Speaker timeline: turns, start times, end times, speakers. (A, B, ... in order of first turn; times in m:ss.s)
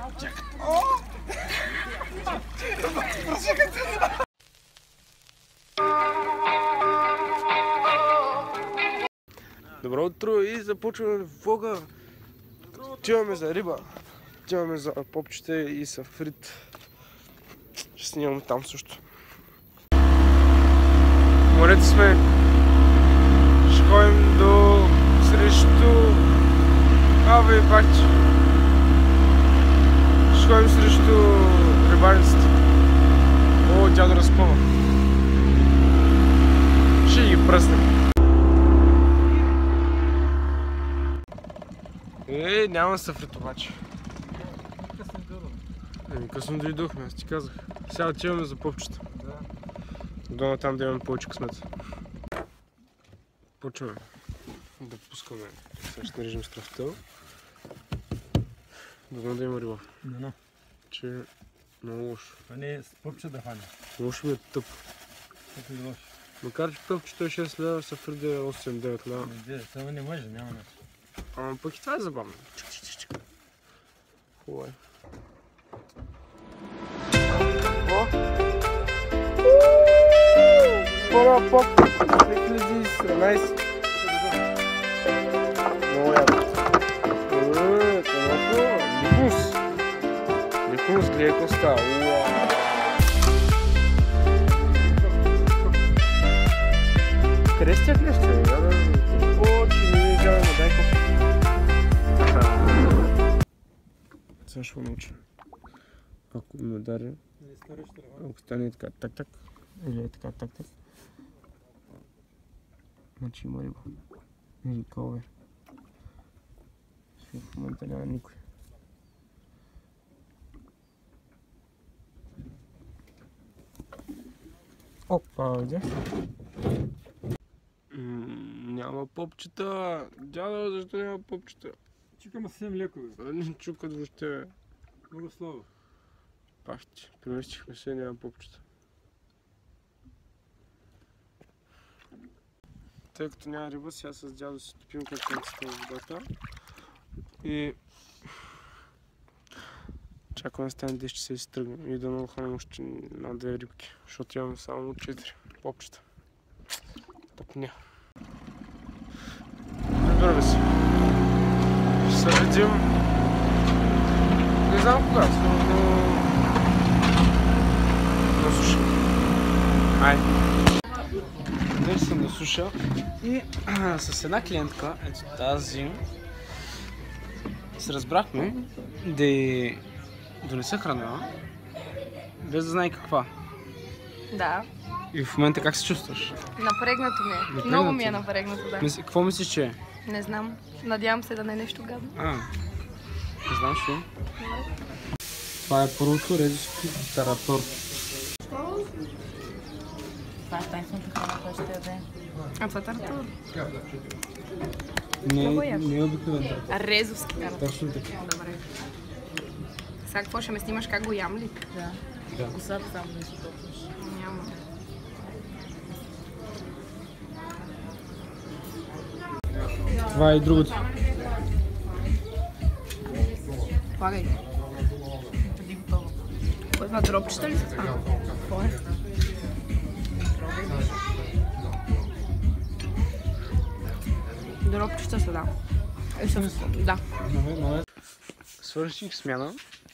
0:00.4-0:01.0 A
0:02.8-0:04.0 A
0:09.8-0:11.9 A
0:12.8-0:16.7 A
0:18.0-0:19.1 A
0:21.5-0:22.2 A
0:23.6-0:26.3 A
0:27.2-0:28.2 A
0:30.3-0:32.6 A
0:33.6-0:34.7 A
0:37.0-0:37.9 A
0:42.3-0:43.8 A
0:44.9-0:45.6 B
0:46.1-0:49.0 A
0:50.3-0:51.7 A
0:53.6-0:54.0 A
0:54.8-0:57.0 A
0:59.1-0:59.9 A
1:00.0-1:00.4 B
1:00.9-1:01.3 A
1:01.8-1:02.4 A
1:02.5-1:03.7 B
1:04.0-1:04.8 A
1:05.5-1:06.1 B
1:06.4-1:09.3 A
1:09.2-1:10.7 B
1:11.3-1:13.2 A
1:14.4-1:14.8 A
1:17.8-1:18.1 A
1:19.4-1:23.6 A
1:25.8-1:26.6 A
1:27.2-1:29.6 A
1:30.6-1:32.9 A
1:37.5-1:41.0 A
1:44.5-1:45.2 A
1:46.3-1:47.2 A
1:47.4-1:48.1 B
1:48.1-1:50.7 A
1:53.2-1:53.9 A
1:54.6-1:55.3 A
1:57.2-1:58.4 A
2:05.1-2:05.9 A
2:07.9-2:11.8 A
2:12.2-2:13.2 B
2:13.2-2:14.5 A
2:15.1-2:15.7 B
2:16.6-2:18.6 A
2:23.1-2:26.3 A
2:27.4-2:27.8 A
2:30.3-2:36.0 A
2:37.4-2:37.8 A
2:40.0-2:40.8 A
2:42.0-2:43.1 A
2:44.6-2:46.4 A
2:48.3-2:48.9 A
2:50.0-2:50.3 A
2:51.7-2:56.0 A
2:57.8-2:59.8 A
3:00.4-3:01.3 A
3:02.4-3:03.3 A
3:04.3-3:04.7 C
3:05.1-3:06.4 A
3:06.6-3:08.9 C
3:07.5-3:08.2 A
3:08.8-3:09.8 A
3:10.0-3:12.1 C
3:12.1-3:12.5 A
3:13.5-3:14.1 A
3:14.4-3:14.7 C
3:15.6-3:17.7 A
3:20.5-3:22.1 D
3:22.6-3:23.3 C
3:25.2-3:26.8 A
3:25.4-3:25.9 C
3:26.7-3:28.6 C
3:27.6-3:28.2 A
3:30.0-3:31.7 C
3:31.7-3:33.9 D
3:32.3-3:32.6 A
3:34.0-3:34.6 C
3:40.1-3:40.8 A
3:44.0-3:44.4 C
3:45.6-3:46.1 C
3:46.8-3:48.8 C
3:54.6-3:55.5 C
3:56.2-3:57.0 C
3:57.2-3:57.8 A
3:58.6-3:59.6 A